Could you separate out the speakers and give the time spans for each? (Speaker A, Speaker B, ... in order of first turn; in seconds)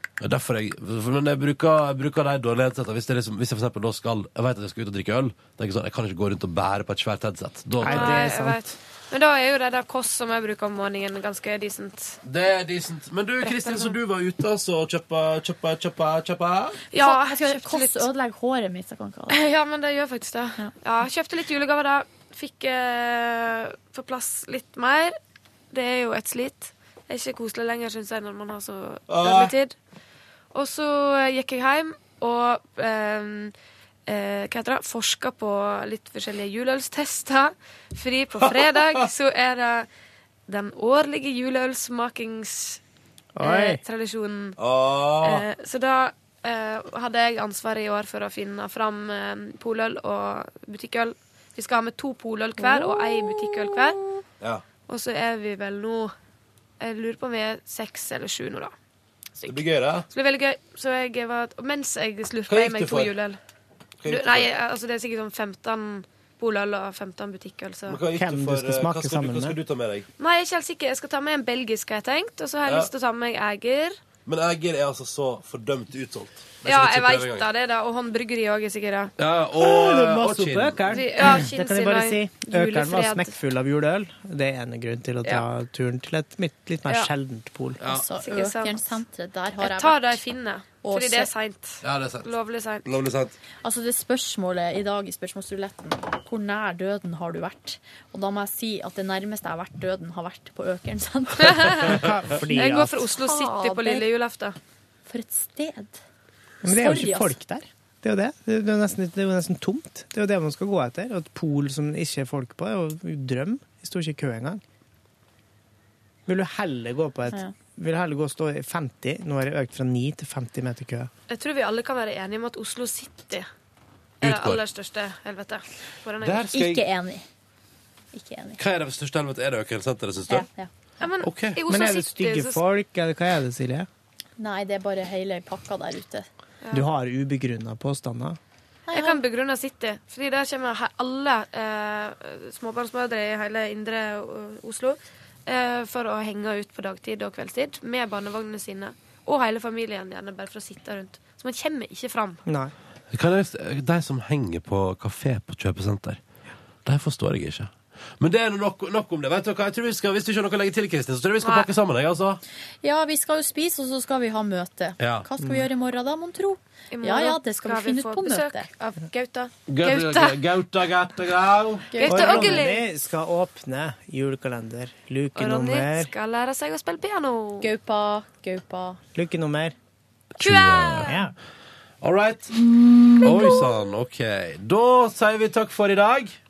Speaker A: 0.2-8.3, 12.2-16.8, 29.1-29.5, 38.4-39.0, 44.6-45.4, 59.5-60.1, 62.5-63.1, 64.0-64.5, 67.9-70.1, 74.3-77.5, 79.2-81.0, 87.8-88.1, 91.8-92.3, 92.8-93.3, 124.2-124.6, 126.2-126.8, 128.6-130.5, 131.2-131.6, 153.1-156.2, 156.8-162.4, 165.0-165.3, 169.7-172.0, 180.4-181.2, 182.0-182.5, 183.2-186.4
Speaker B: 7.8-8.7, 43.4-43.8, 68.1-69.6, 79.6-87.8, 101.8-103.0, 106.6-114.6, 116.3-121.1, 131.7-133.9, 136.7-138.4, 152.5-152.7, 165.4-165.7, 172.1-176.1, 179.2-179.8, 181.0-181.3
Speaker C: 7.9-12.2, 13.4-13.9, 16.9-18.1, 19.3-25.2, 25.7-29.7, 30.5-33.5, 34.1-39.9, 40.5-42.8, 43.4-44.6, 45.2-54.0, 54.9-56.1, 56.8-58.7, 59.4-63.4, 64.1-68.0, 70.2-74.0, 76.7-79.1, 80.9-83.3, 86.9-87.1, 88.1-89.0, 89.6-92.8, 101.4-102.0, 102.5-104.6, 121.3-123.5, 124.2-126.5, 131.0-132.6, 138.9-152.4, 161.4-161.7, 166.9-170.4, 172.0-172.9, 175.4-177.7, 180.4-181.2
Speaker D: 17.0-19.4, 52.6-53.8, 87.9-90.2, 90.8-91.3, 93.6-102.0, 102.5-104.1, 105.1-106.0, 106.7-107.4, 126.5-127.2, 128.1-128.6, 130.3-130.7, 134.4-136.3, 138.9-139.2, 162.8-168.7, 171.9-172.6, 177.6-179.0